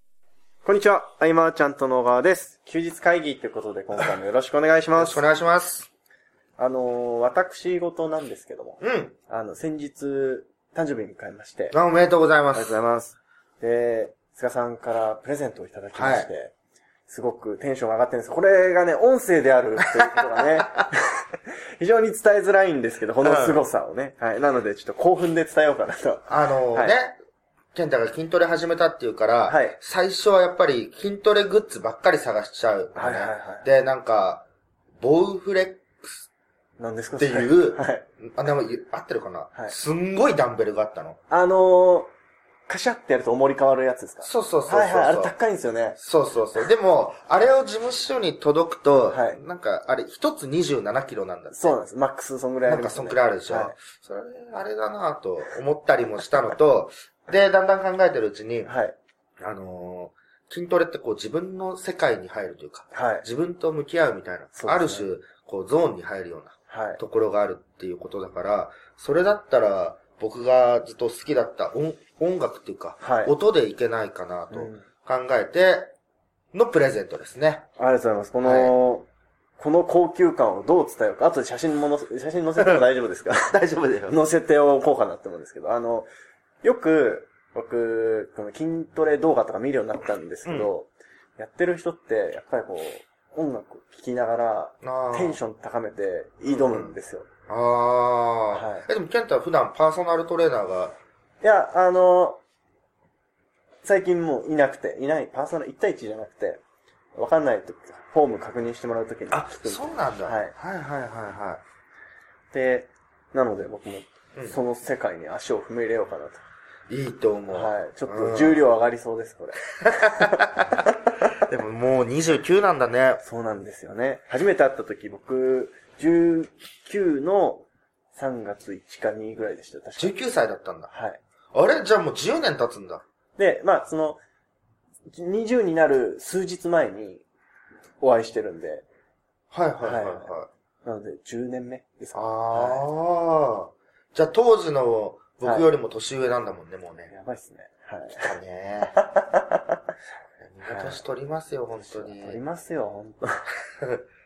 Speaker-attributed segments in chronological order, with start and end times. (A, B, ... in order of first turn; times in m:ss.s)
0:00.6-0:05.3 A
0:05.0-0:05.9 B
0:06.6-0:11.8 A
0:08.8-0:09.1 B
0:11.7-0:12.8 B
0:12.5-0:16.5 A
0:16.0-0:16.3 B
0:17.1-0:27.0 A
0:19.9-0:20.7 B
0:23.2-0:23.6 B
0:26.3-0:27.2 B
0:27.7-0:34.4 B
0:29.5-0:29.8 A
0:33.0-0:33.7 A
0:35.0-0:36.3 B
0:36.8-0:38.0 A
0:37.2-0:41.2 B
0:41.3-0:42.1 A
0:42.7-0:46.0 A
0:44.2-0:45.3 B
0:46.0-0:51.8 B
0:49.1-0:49.4 A
0:51.5-0:53.7 A
0:52.7-0:58.7 B
0:58.6-0:59.0 A
0:59.4-1:15.9 B
1:02.9-1:03.2 A
1:04.6-1:05.1 A
1:06.7-1:07.0 A
1:13.0-1:13.3 A
1:14.5-1:14.8 A
1:16.5-1:17.7 B
1:17.8-1:19.1 A
1:18.4-1:18.8 B
1:19.6-1:23.5 A
1:22.6-1:24.2 B
1:24.1-1:26.1 A
1:26.6-1:37.3 A
1:30.5-1:30.7 B
1:34.8-1:35.4 B
1:36.5-1:37.0 B
1:37.5-1:41.0 B
1:38.5-1:38.9 A
1:41.4-1:42.4 A
1:43.8-1:46.6 A
1:47.2-1:50.5 A
1:49.3-1:51.6 B
1:52.5-1:56.4 A
1:56.9-1:58.6 B
1:57.5-2:00.4 A
1:59.8-2:03.2 B
2:03.2-2:10.2 A
2:10.0-2:10.9 B
2:10.9-2:11.2 A
2:11.5-2:13.0 B
2:13.4-2:14.2 A
2:15.1-2:17.2 A
2:18.0-2:18.8 A
2:19.5-2:20.5 B
2:19.8-2:20.3 A
2:20.8-2:22.9 A
2:22.1-2:27.1 B
2:27.1-2:28.3 A
2:28.2-2:29.0 B
2:29.0-2:29.8 A
2:30.4-2:32.4 B
2:30.6-2:31.0 A
2:31.8-2:33.5 A